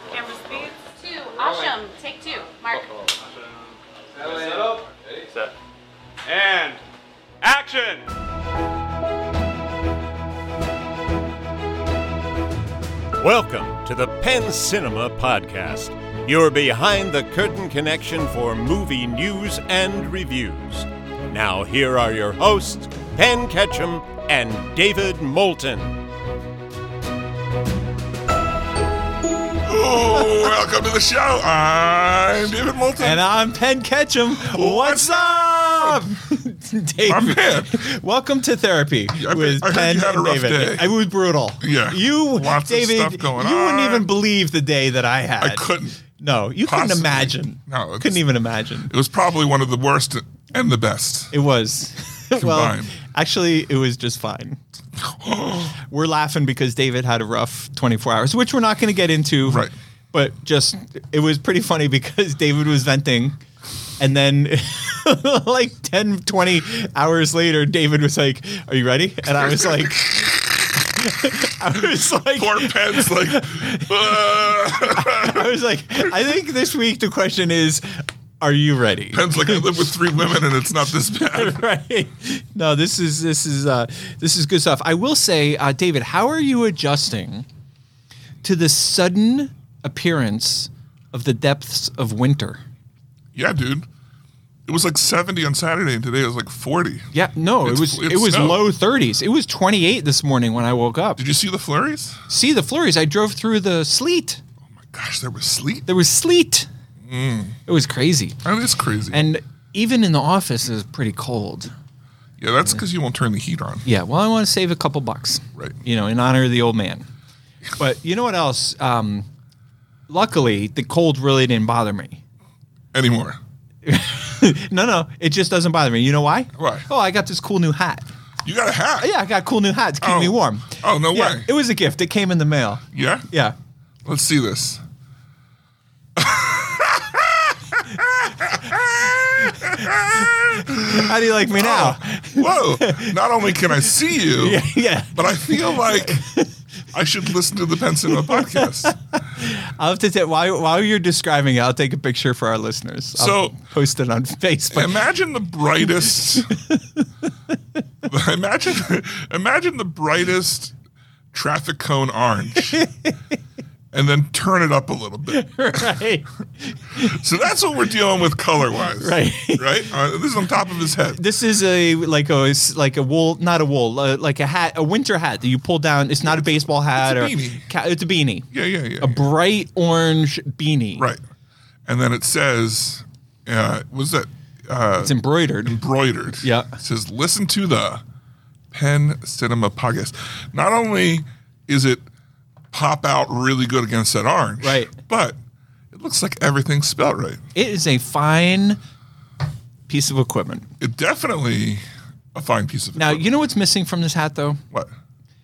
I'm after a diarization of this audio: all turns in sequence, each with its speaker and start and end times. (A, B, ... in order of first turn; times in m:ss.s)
0:00.1-0:02.8 A
0:02.7-0:05.5 B
0:06.2-0:06.8 B
0:07.4-0:08.1 B
0:13.2-0:26.0 C
0:29.6-0:33.2 D
0:33.0-0:48.9 E
0:34.4-0:36.1 D
0:37.0-0:37.8 D
0:39.1-0:40.9 D
0:41.6-0:44.1 D
0:45.4-0:46.0 D
0:46.6-0:48.2 D
0:48.9-0:51.3 D
0:51.3-0:54.6 E
0:52.4-0:52.9 D
0:55.0-0:55.8 D
0:55.8-1:03.4 E
0:59.4-0:59.7 D
1:04.0-1:14.2 E
1:09.4-1:10.6 D
1:12.3-1:15.5 D
1:14.8-1:19.7 E
1:19.1-1:21.6 D
1:21.1-1:27.4 E
1:28.4-1:32.6 E
1:33.3-1:33.9 D
1:34.6-1:37.1 D
1:37.1-1:41.2 E
1:37.6-1:38.6 D
1:41.2-1:42.2 D
1:42.3-1:44.4 E
1:44.6-1:45.9 D
1:45.9-1:46.7 E
1:47.0-1:47.6 D
1:47.6-1:48.4 E
1:48.4-1:49.2 D
1:49.1-1:51.7 E
1:52.4-1:53.8 D
1:53.8-1:57.1 E
1:57.8-1:59.3 E
2:00.1-2:02.2 E
2:02.9-2:03.4 D
2:03.8-2:08.1 E
2:06.6-2:06.8 D
2:08.4-2:09.1 D
2:09.0-2:13.6 E
2:10.0-2:11.5 D
2:12.9-2:13.3 D
2:14.0-2:14.8 D
2:16.2-2:26.2 D
2:19.4-2:23.2 E
2:24.2-2:26.5 E
2:26.9-2:29.0 D
2:28.1-2:28.6 E
2:29.2-2:35.0 E
2:33.1-2:33.6 D
2:34.7-2:36.5 D
2:36.2-2:37.0 E
2:38.0-2:40.7 D
2:41.3-2:42.8 D
2:42.7-2:43.2 E
2:43.9-2:45.9 D
2:45.3-2:47.2 E
2:47.0-2:51.2 D
2:49.0-2:49.9 E
2:51.1-2:58.5 E
2:56.9-2:57.7 D
2:58.5-2:59.3 D
2:59.0-3:01.1 E
3:01.8-3:08.0 D
3:05.0-3:05.8 E
3:06.4-3:06.8 E
3:08.7-3:12.0 D
3:12.7-3:15.4 D
3:14.6-3:14.9 E
3:15.9-3:17.4 D
3:17.5-3:18.8 E
3:19.9-3:20.7 E
3:20.8-3:23.2 D
3:23.0-3:24.6 E